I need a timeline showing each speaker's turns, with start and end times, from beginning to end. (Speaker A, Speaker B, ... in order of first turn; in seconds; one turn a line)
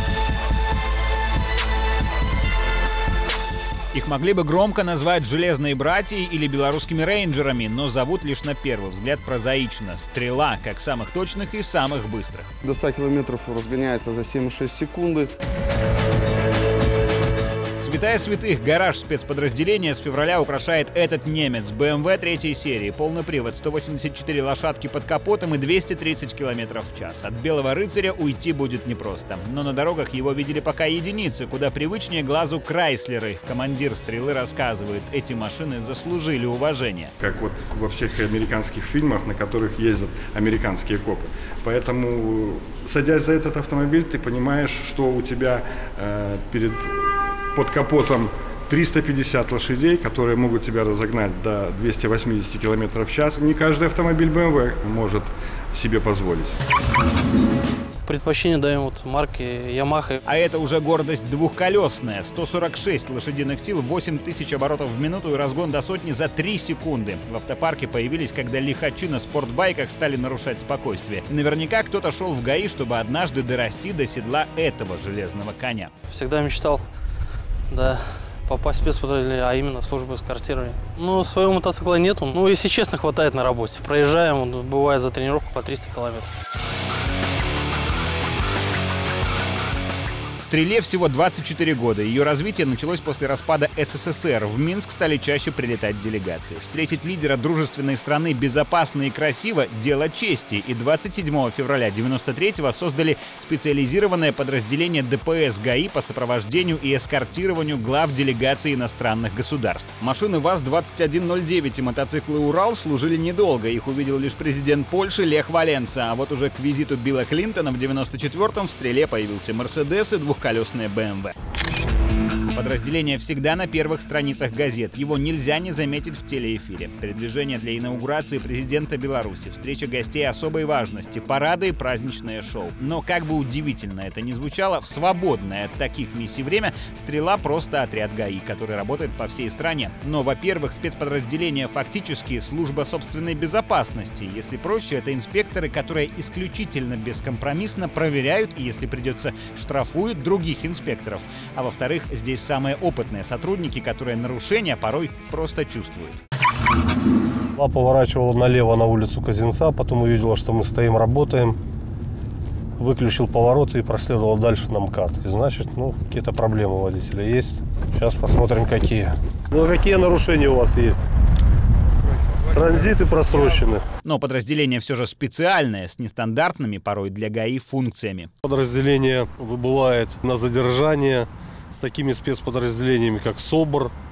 Speaker A: 3.9-12.5
Speaker B: 12.6-15.3
Speaker A: 17.8-37.1
Speaker C: 37.2-46.9
Speaker C: 47.5-56.5
Speaker D: 58.1-60.2
Speaker A: 60.3-75.9
Speaker D: 76.1-76.8
Speaker D: 77.7-86.3
Speaker A: 90.4-121.3
Speaker A: 122.5-156.2
Speaker E: 157.6-161.6
Speaker E: 162.8-171.1
Speaker E: 172.5-173.8
Speaker A: 174.0-178.3
Speaker E: 178.4-183.9